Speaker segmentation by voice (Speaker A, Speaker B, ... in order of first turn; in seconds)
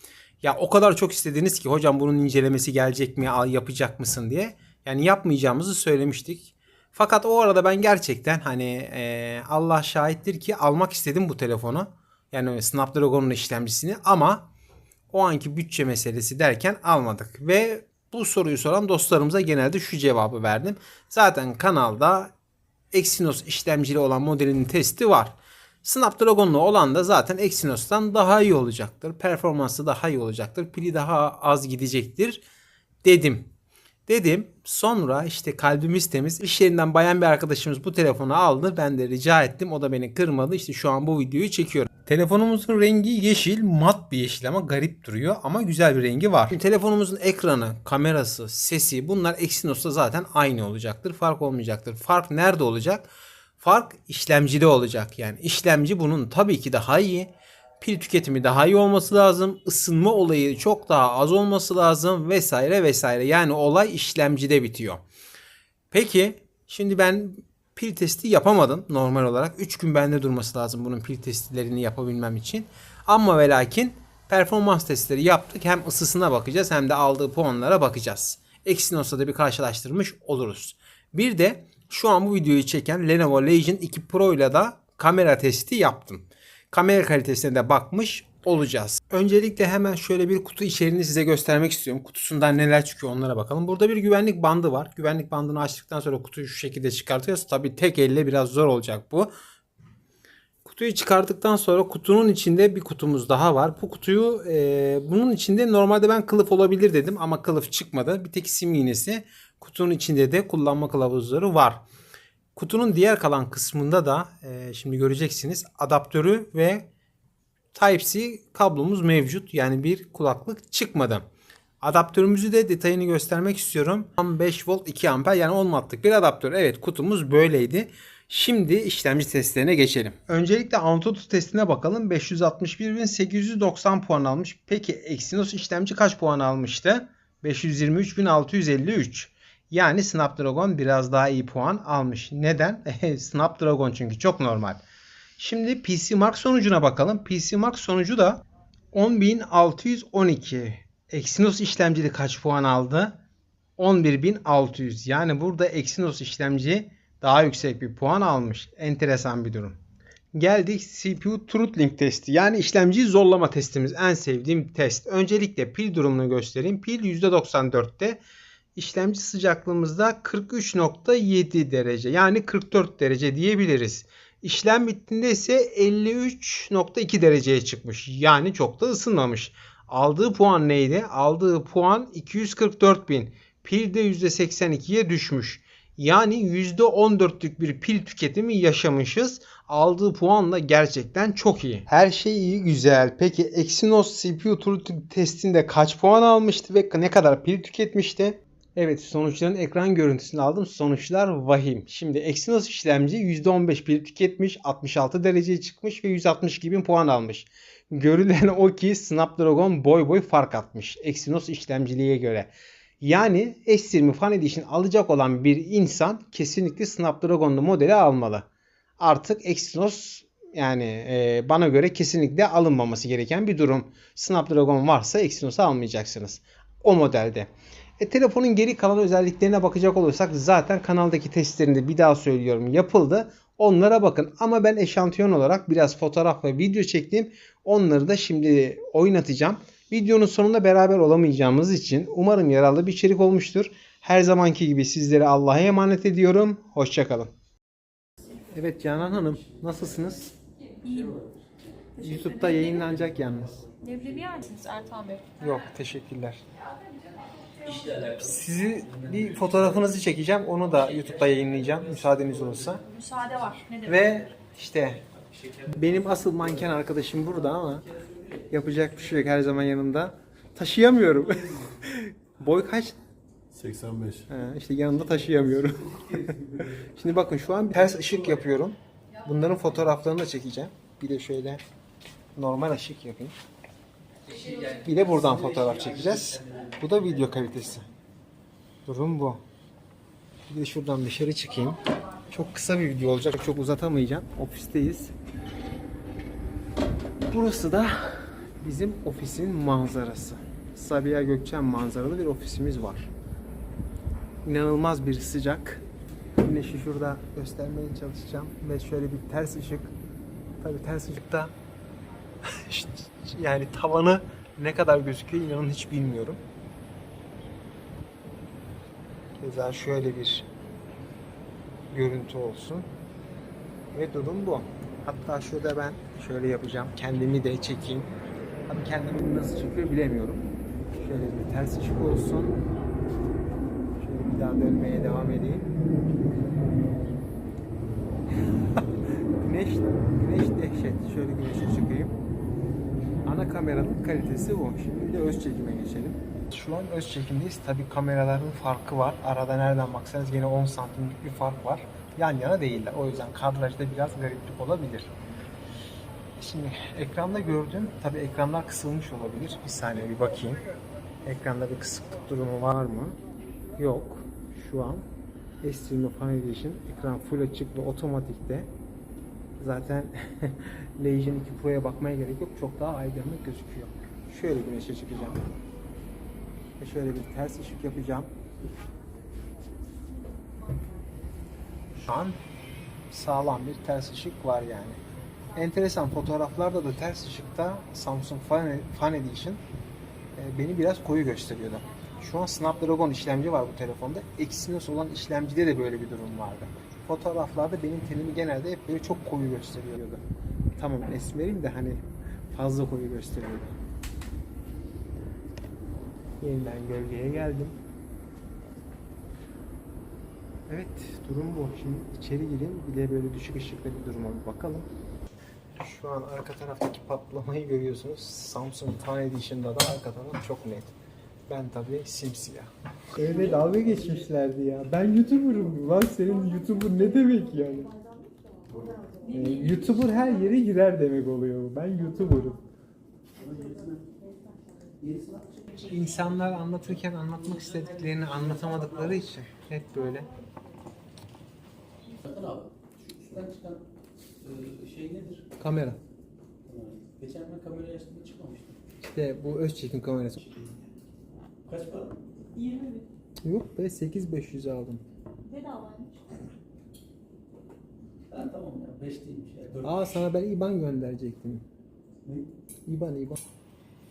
Speaker A: 0.4-14.5, 15.1-22.3, 22.9-32.4, 33.0-33.5, 34.1-65.0, 65.9-99.3, 100.6-111.8, 112.5-116.9, 117.7-121.2, 121.8-144.8, 145.4-153.2, 153.8-159.8, 160.3-168.2, 168.7-218.5, 219.0-247.3, 248.5-250.3, 252.0-253.7, 255.4-256.4, 258.1-262.8, 263.8-265.0, 265.7-267.9, 268.5-273.0, 274.3-281.6, 282.4-283.4, 284.6-287.9, 288.9-289.4, 290.5-295.1, 297.3-303.1, 304.4-305.8, 306.4-309.9, 310.6-311.5, 312.4-316.4, 319.4-320.5, 321.9-322.9, 323.9-328.1, 328.7-332.6, 333.9-335.7, 339.4-342.1, 343.2-355.1, 356.4-360.6, 361.2-363.2, 363.8-365.1, 365.6-368.7, 369.6-375.5, 376.8-378.3, 382.0-382.4, 383.1-385.0, 385.5-389.6, 390.4-400.2, 400.8-402.0, 402.5-403.8, 406.4-407.8, 410.7-414.9, 415.8-420.9, 421.5-427.9, 429.2-432.6, 435.8-440.3, 445.6-446.0, 449.0-450.5, 453.4-455.0, 459.8-461.6, 462.9-463.4
Speaker B: 250.8-251.9, 252.7-254.9, 257.6-259.9, 260.6-264.3, 265.3-268.9, 271.2-271.8, 273.5-274.2, 275.3-276.9, 277.9-278.4, 284.3-287.2, 423.6-423.8, 433.4-434.1, 435.0-435.9, 437.5-439.2, 442.1-443.8, 444.4-445.5, 446.6-448.7, 451.7-452.1, 458.3-460.1
Speaker C: 252.1-252.7, 253.8-255.3, 256.8-257.5, 262.9-264.0, 452.5-453.0, 455.4-456.2